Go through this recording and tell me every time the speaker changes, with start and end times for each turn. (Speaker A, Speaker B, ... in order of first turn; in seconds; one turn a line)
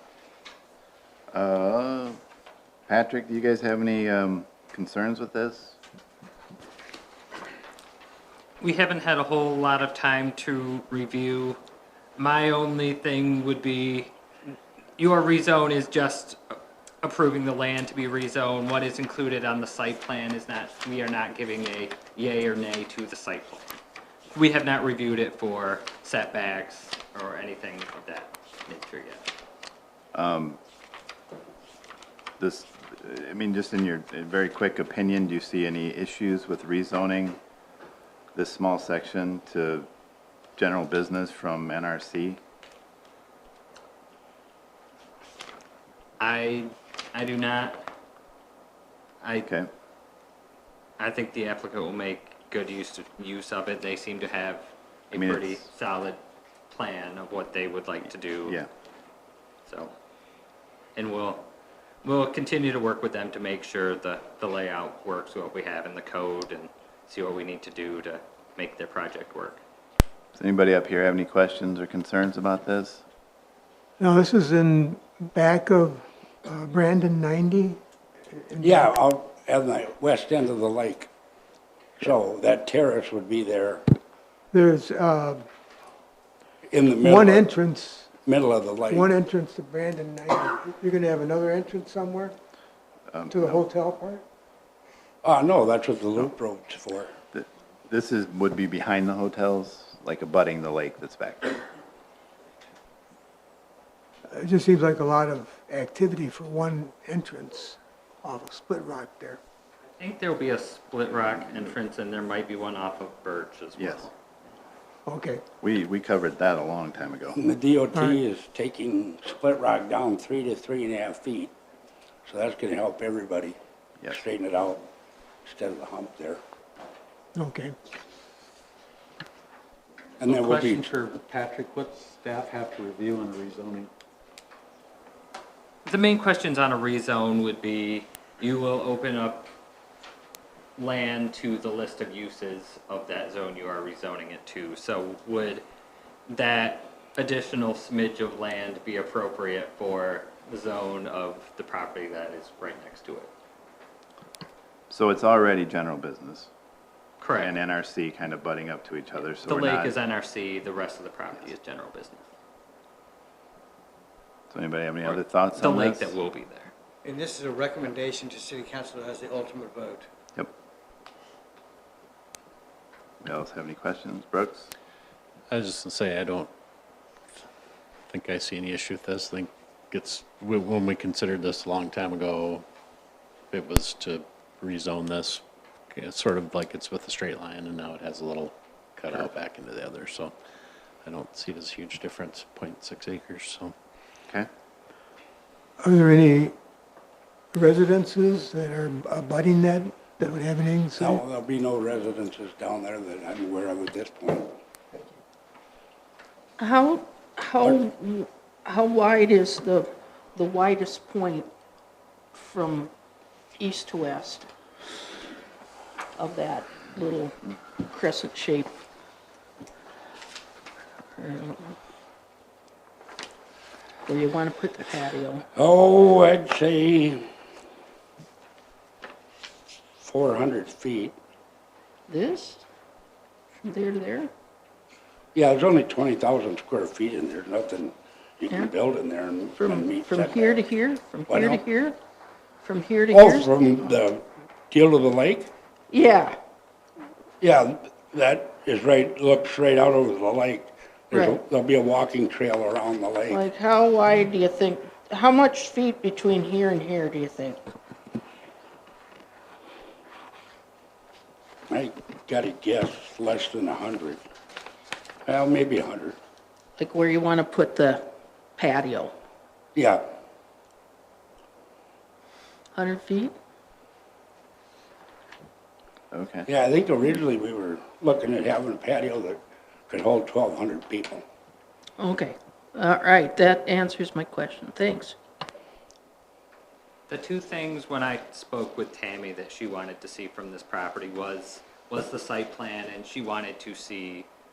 Speaker A: 1.3-2.2
Speaker A: 2.9-5.8
Speaker B: 8.6-11.6
Speaker B: 12.2-14.1
Speaker B: 15.0-23.7
Speaker B: 24.3-29.2
Speaker A: 30.1-30.6
Speaker A: 32.4-37.4
Speaker A: 38.3-39.9
Speaker A: 40.5-42.4
Speaker B: 46.2-47.8
Speaker B: 49.2-49.5
Speaker A: 49.4-49.7
Speaker B: 51.0-56.2
Speaker A: 55.1-55.7
Speaker B: 56.7-58.6
Speaker B: 59.7-59.9
Speaker B: 61.0-61.5
Speaker B: 62.0-69.6
Speaker A: 70.3-73.0
Speaker C: 74.0-77.8
Speaker C: 78.3-78.9
Speaker D: 78.6-81.1
Speaker D: 82.0-83.8
Speaker C: 84.5-85.4
Speaker D: 86.7-87.5
Speaker C: 87.0-88.1
Speaker D: 88.2-89.1
Speaker C: 88.9-92.3
Speaker A: 93.1-93.7
Speaker C: 93.3-94.2
Speaker D: 95.2-97.1
Speaker A: 97.3-101.7
Speaker C: 104.3-109.4
Speaker B: 110.0-114.1
Speaker A: 113.8-114.1
Speaker C: 115.0-115.4
Speaker A: 115.6-117.4
Speaker D: 117.4-121.5
Speaker C: 117.9-118.2
Speaker D: 122.2-123.6
Speaker D: 124.1-124.8
Speaker D: 125.4-126.4
Speaker C: 127.3-127.7
Speaker D: 130.2-130.9
Speaker E: 130.2-133.9
Speaker B: 135.8-139.5
Speaker B: 140.8-145.6
Speaker B: 146.3-153.3
Speaker A: 154.9-156.5
Speaker B: 157.2-157.6
Speaker A: 157.3-160.0
Speaker B: 159.4-162.3
Speaker A: 164.5-166.2
Speaker B: 165.0-166.7
Speaker F: 167.0-170.1
Speaker A: 173.2-174.7
Speaker G: 175.5-176.5
Speaker G: 178.1-182.6
Speaker G: 183.5-190.3
Speaker G: 191.0-193.7
Speaker C: 195.8-196.5
Speaker C: 197.5-201.2
Speaker D: 200.9-204.5
Speaker H: 206.6-211.5
Speaker H: 212.3-212.9
Speaker H: 213.6-214.4
Speaker H: 216.2-217.3
Speaker H: 217.9-218.7
Speaker H: 221.2-221.8
Speaker H: 224.0-225.4
Speaker D: 225.5-227.3
Speaker D: 230.0-231.1
Speaker H: 232.1-232.6
Speaker H: 233.6-234.3
Speaker D: 235.3-240.7
Speaker H: 239.5-242.0
Speaker D: 241.3-241.6
Speaker H: 242.6-243.5
Speaker D: 243.1-245.5
Speaker H: 245.9-246.4
Speaker D: 247.4-253.4
Speaker H: 251.1-251.4
Speaker H: 253.3-257.6
Speaker D: 261.7-264.2
Speaker D: 265.2-266.2
Speaker H: 266.8-269.1
Speaker D: 269.7-270.0
Speaker H: 272.7-273.3
Speaker A: 276.1-276.5
Speaker D: 276.5-281.2
Speaker H: 282.0-285.1
Speaker B: 287.1-294.3